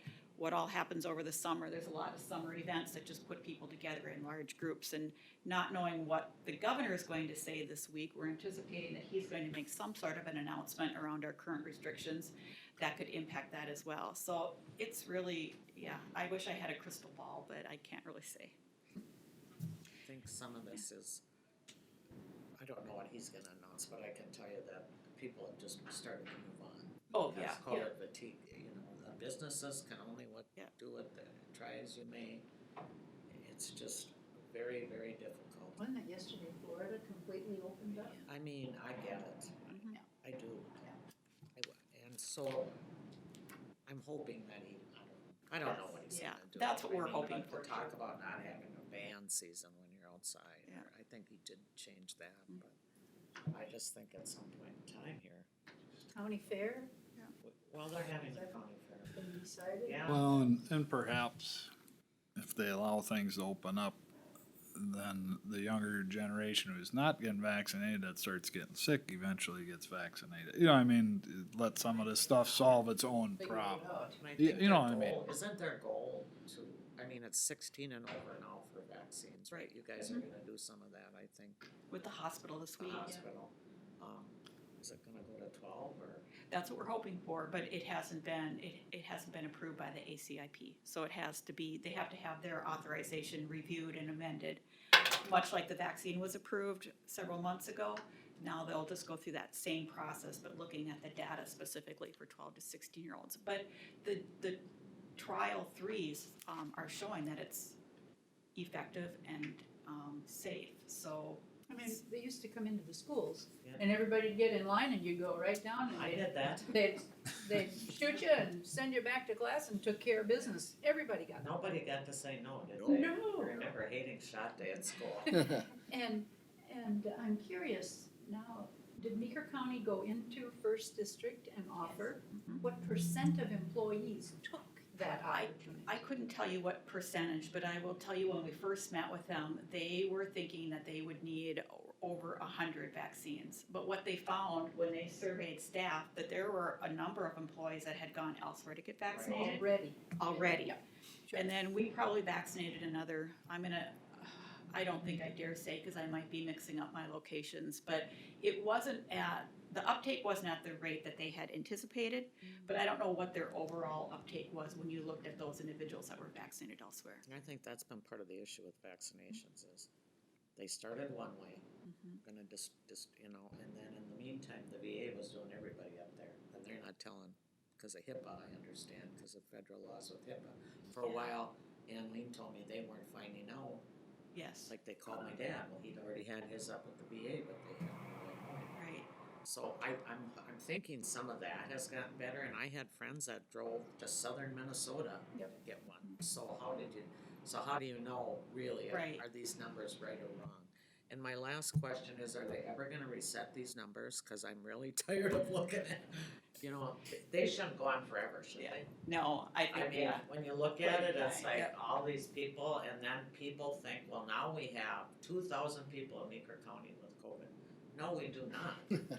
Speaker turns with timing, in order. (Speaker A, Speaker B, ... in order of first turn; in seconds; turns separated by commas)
Speaker A: 0.4-18.6, Speaker B: 20.0-21.2, Speaker B: 22.6-32.5, Speaker A: 27.1-27.9, Speaker B: 33.3-35.8, Speaker C: 35.8-38.3, Speaker B: 37.9-40.9, Speaker A: 39.7-40.0, Speaker B: 41.6-42.8, Speaker B: 43.9-52.8, Speaker C: 45.6-46.1, Speaker A: 46.1-47.9, Speaker B: 53.5-55.5, Speaker C: 56.1-56.9, Speaker B: 57.4-59.2, Speaker C: 58.0-58.6, Speaker C: 59.1-60.1, Speaker B: 59.9-60.3, Speaker D: 60.1-61.7, Speaker D: 62.4-64.0, Speaker D: 64.8-75.2, Speaker C: 73.4-74.2, Speaker B: 74.2-81.6, Speaker A: 79.5-80.2, Speaker A: 81.9-83.1, Speaker B: 82.8-86.3, Speaker A: 86.5-94.6, Speaker A: 95.2-104.6, Speaker A: 105.2-107.8, Speaker A: 108.5-112.0, Speaker C: 111.7-121.5, Speaker B: 113.6-113.9, Speaker B: 115.9-116.8, Speaker B: 120.3-120.6, Speaker B: 121.4-125.5, Speaker C: 122.8-123.7, Speaker C: 125.4-136.0, Speaker A: 131.8-132.6, Speaker A: 135.1-149.6, Speaker B: 149.1-149.6, Speaker C: 149.3-150.8, Speaker A: 150.2-150.8, Speaker C: 151.3-151.6, Speaker A: 151.3-167.2, Speaker B: 167.3-169.9, Speaker B: 170.6-171.7, Speaker A: 171.9-172.2, Speaker B: 172.2-183.9, Speaker A: 181.0-181.3, Speaker A: 184.3-184.7, Speaker B: 184.7-188.9, Speaker A: 188.8-189.1, Speaker B: 189.4-208.9, Speaker A: 198.9-199.2, Speaker A: 208.6-210.2, Speaker B: 209.7-219.1, Speaker A: 210.8-211.7